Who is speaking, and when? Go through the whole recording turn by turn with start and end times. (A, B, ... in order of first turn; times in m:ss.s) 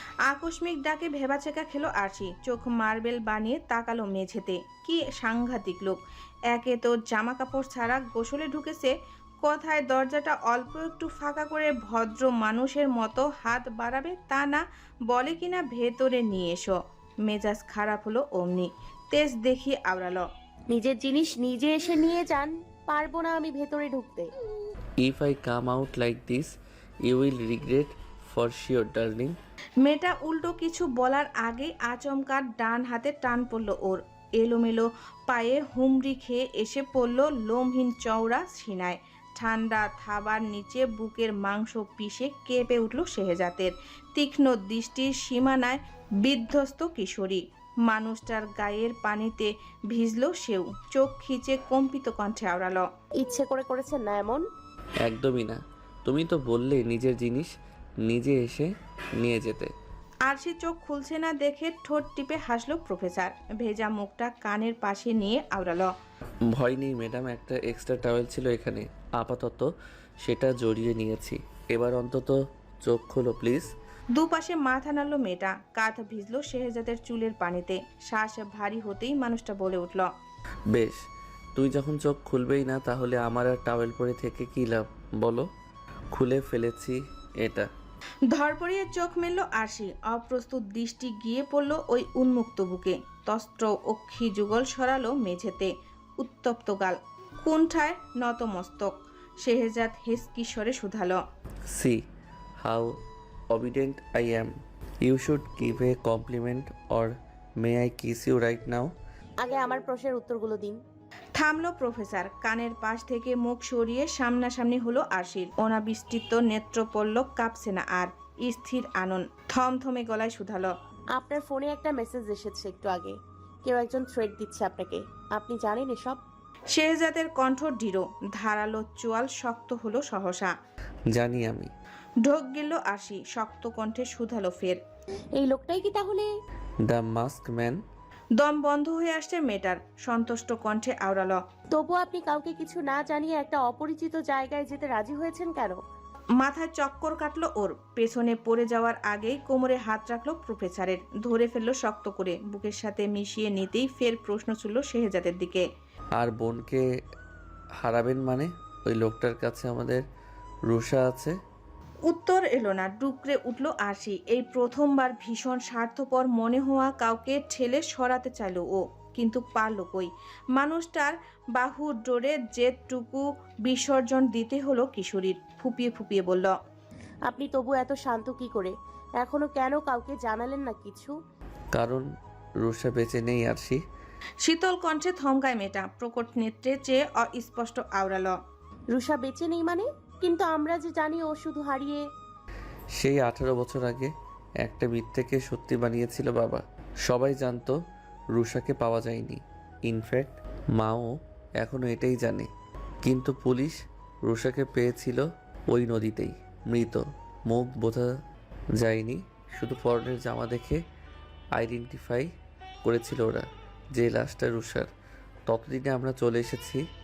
0:00.3-0:06.0 A
0:06.5-0:08.9 A
0:09.4-0:20.2 A
0:20.7-0:24.3 B
0:25.0-0:26.5 C
0:27.1-0:29.4 C
0:29.8-0:52.8 A
0:53.2-0:54.4 B
0:55.0-0:57.5 C
0:58.0-0:59.7 C
1:00.3-1:05.9 A
1:06.5-1:09.7 C
1:10.2-1:13.7 C
1:14.2-1:20.1 A
1:20.7-1:21.0 C
1:21.6-1:25.5 C
1:26.1-1:27.7 C
1:28.3-1:41.2 A
1:41.7-1:42.0 C
1:42.6-1:43.0 C
1:43.5-1:48.9 C
1:49.4-1:50.8 B
1:51.4-2:00.7 A
2:01.2-2:06.2 B
2:06.7-2:10.5 A
2:11.1-2:11.7 C
2:12.2-2:14.8 A
2:15.4-2:16.3 B
2:16.8-2:17.8 C
2:18.4-2:21.4 A
2:21.7-2:25.8 B
2:26.4-2:35.6 A
2:36.2-2:36.8 C
2:37.8-2:40.0 C
2:40.7-2:41.4 C
2:42.1-2:56.5 A
2:57.3-3:01.2 B
3:01.7-3:02.1 C
3:02.6-3:03.8 C
3:04.4-3:08.3 A
3:08.9-3:12.0 B
3:13.0-3:14.1 C
3:14.6-3:17.8 C
3:18.3-3:22.5 C
3:23.0-3:28.1 C
3:28.8-3:30.8 C
3:31.6-3:32.3 C
3:32.8-3:34.9 C
3:35.5-3:36.8 C